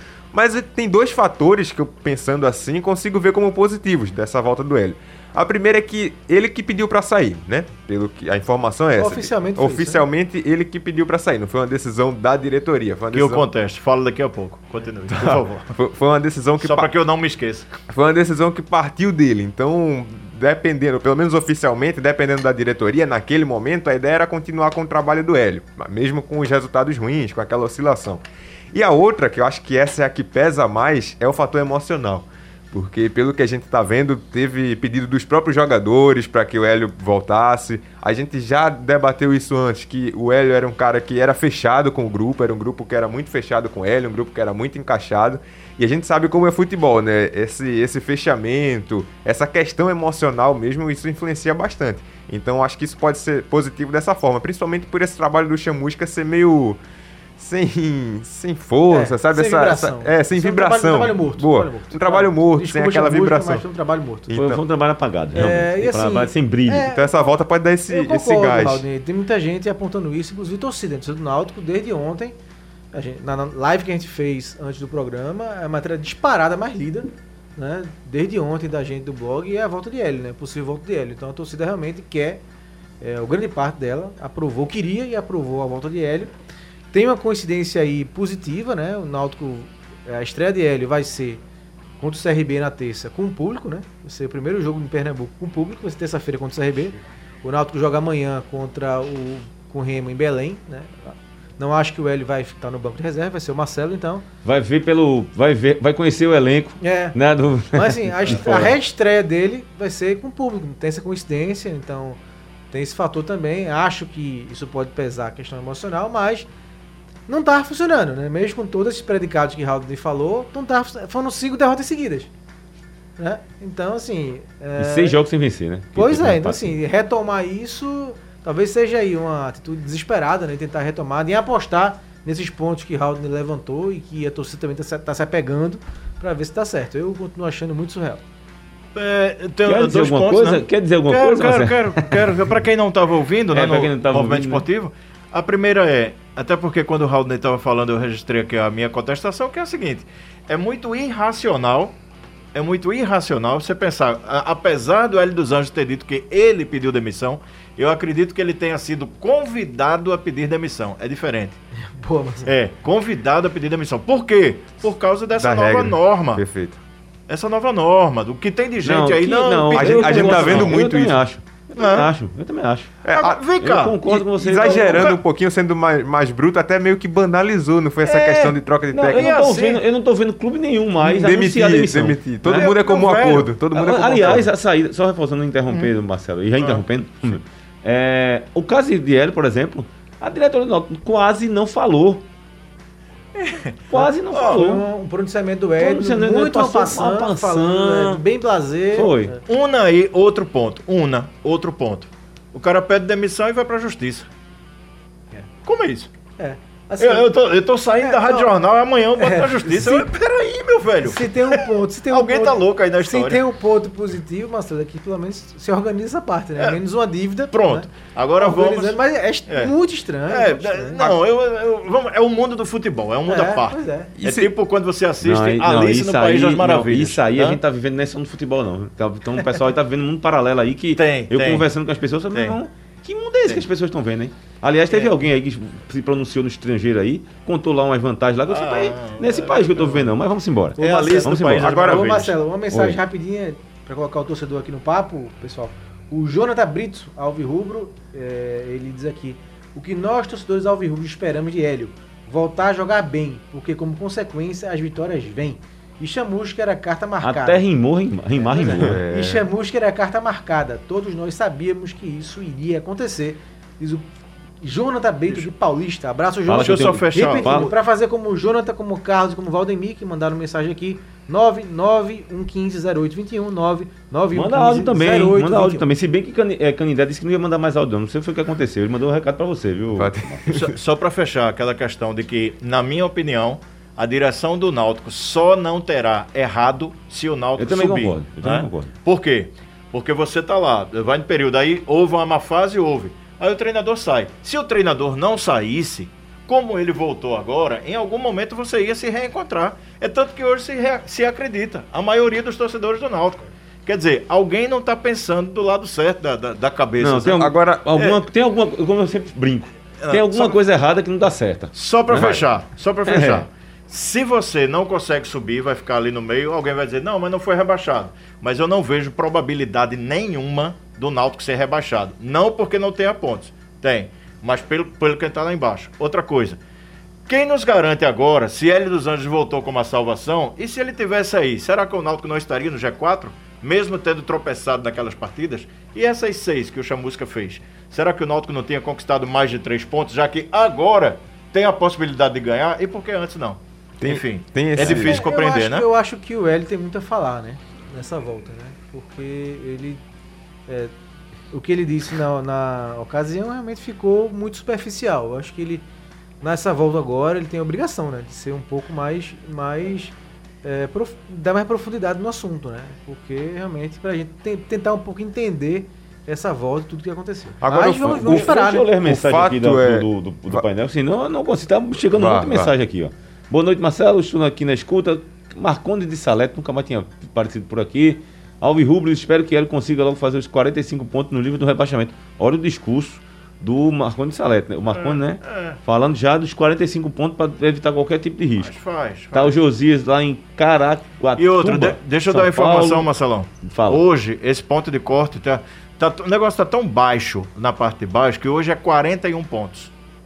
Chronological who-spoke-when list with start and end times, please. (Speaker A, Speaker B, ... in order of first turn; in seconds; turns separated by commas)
Speaker A: 0.3-13.5, Speaker B: 8.9-10.0, Speaker C: 13.1-15.7, Speaker A: 15.1-16.9, Speaker C: 16.6-17.7, Speaker A: 17.9-56.8, Speaker A: 57.4-63.6, Speaker B: 58.9-64.3, Speaker A: 64.3-64.6, Speaker D: 64.3-66.9, Speaker B: 65.3-67.1, Speaker A: 66.8-68.8, Speaker B: 67.9-72.4, Speaker B: 72.9-82.4, Speaker B: 83.0-86.3, Speaker B: 86.9-91.4, Speaker B: 92.0-104.2, Speaker D: 104.4-108.8, Speaker B: 106.8-107.2, Speaker B: 107.7-112.2, Speaker B: 112.7-116.5, Speaker B: 117.3-122.3, Speaker B: 123.2-125.2, Speaker D: 124.8-126.8, Speaker B: 126.0-138.2, Speaker C: 138.9-151.9, Speaker D: 139.6-142.3, Speaker D: 143.5-144.7, Speaker C: 152.5-161.6, Speaker B: 161.9-162.5, Speaker C: 162.4-166.4, Speaker A: 165.4-166.8, Speaker C: 167.3-170.8, Speaker D: 168.8-172.9, Speaker A: 169.7-171.2, Speaker C: 171.7-172.1, Speaker A: 173.0-173.4, Speaker C: 173.1-174.0, Speaker D: 173.6-175.2, Speaker A: 174.0-179.5, Speaker C: 174.6-175.2, Speaker D: 178.0-182.7, Speaker C: 179.1-179.8, Speaker A: 181.0-184.5, Speaker C: 182.4-183.6, Speaker D: 183.7-192.2, Speaker C: 186.6-186.8, Speaker D: 193.9-194.8, Speaker B: 194.0-199.4, Speaker C: 194.3-194.6, Speaker D: 195.8-198.2, Speaker D: 198.9-199.3, Speaker C: 199.5-204.3, Speaker C: 205.6-206.1, Speaker B: 206.4-207.3, Speaker C: 207.0-213.4, Speaker B: 208.0-208.5, Speaker B: 209.2-210.1, Speaker B: 211.0-217.9, Speaker C: 217.5-219.7, Speaker B: 218.4-221.2, Speaker C: 220.3-227.6, Speaker B: 223.3-224.1, Speaker A: 224.2-224.5, Speaker D: 225.2-242.1, Speaker C: 230.9-231.7, Speaker C: 232.3-232.6, Speaker C: 238.5-240.1, Speaker C: 240.8-242.3, Speaker B: 240.8-257.6, Speaker A: 241.7-242.2, Speaker D: 242.7-243.0, Speaker D: 257.2-259.0, Speaker B: 258.4-264.0, Speaker A: 258.8-259.4, Speaker B: 264.6-275.9, Speaker D: 266.5-267.7, Speaker C: 266.5-267.7, Speaker D: 274.3-280.5, Speaker A: 279.9-280.7, Speaker C: 280.5-308.2, Speaker D: 287.6-288.9, Speaker D: 307.0-312.5, Speaker A: 307.3-307.9, Speaker C: 310.0-310.6, Speaker C: 311.7-326.6, Speaker D: 313.0-313.4, Speaker C: 327.3-345.9, Speaker A: 344.0-345.2, Speaker B: 344.8-350.0, Speaker B: 351.5-355.8, Speaker B: 356.4-368.9, Speaker A: 367.6-370.6, Speaker D: 368.1-388.7, Speaker A: 372.1-372.7, Speaker C: 384.9-385.8, Speaker C: 388.6-389.6, Speaker D: 389.3-393.1, Speaker C: 391.4-399.9, Speaker D: 393.6-394.0